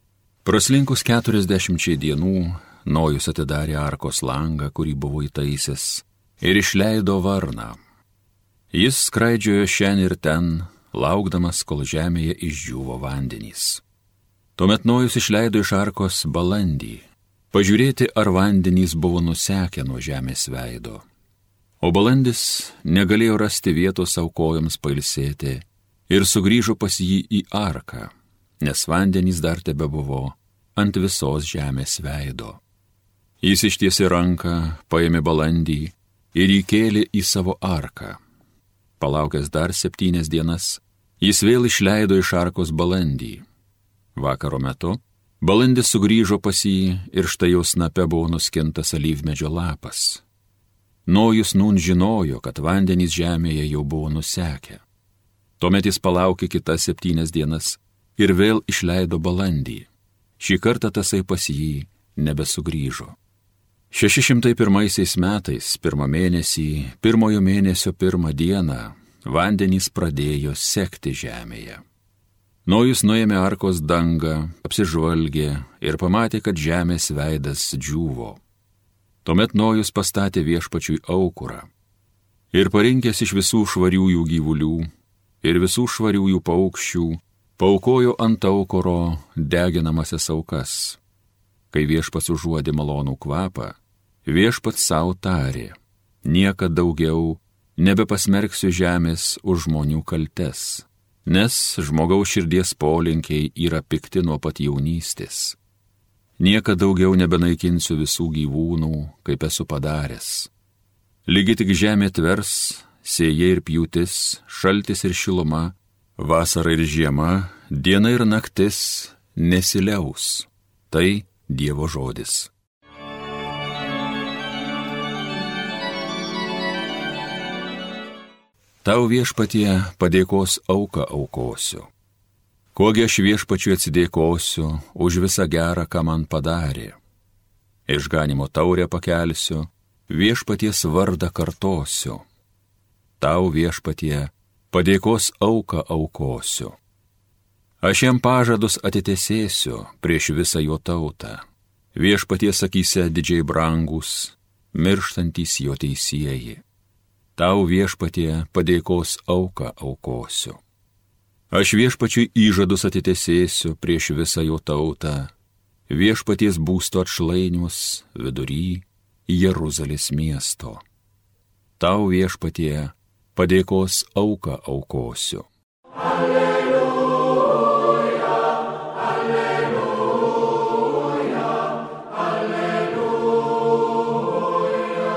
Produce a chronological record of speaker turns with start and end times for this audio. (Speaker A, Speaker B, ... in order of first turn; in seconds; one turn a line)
Speaker A: 0.4-7.8
Speaker A: 8.7-13.8
Speaker A: 14.6-21.0
Speaker A: 21.8-32.6
Speaker A: 33.4-38.2
Speaker A: 39.0-43.4
Speaker A: 44.1-50.2
Speaker A: 51.0-54.8
Speaker A: 55.6-63.1
Speaker A: 63.9-71.8
Speaker A: 72.6-78.4
Speaker A: 79.2-81.7
Speaker A: 82.5-84.9
Speaker A: 85.4-91.0
Speaker A: 91.7-105.6
Speaker A: 106.4-110.5
Speaker A: 111.2-122.5
Speaker A: 128.8-131.9
Speaker A: 132.7-137.0
Speaker A: 137.9-142.2
Speaker A: 143.2-146.8
Speaker A: 147.8-151.4
Speaker A: 151.9-156.6
Speaker A: 157.3-160.6
Speaker A: 161.5-165.3
Speaker A: 165.9-170.8
Speaker A: 171.8-175.5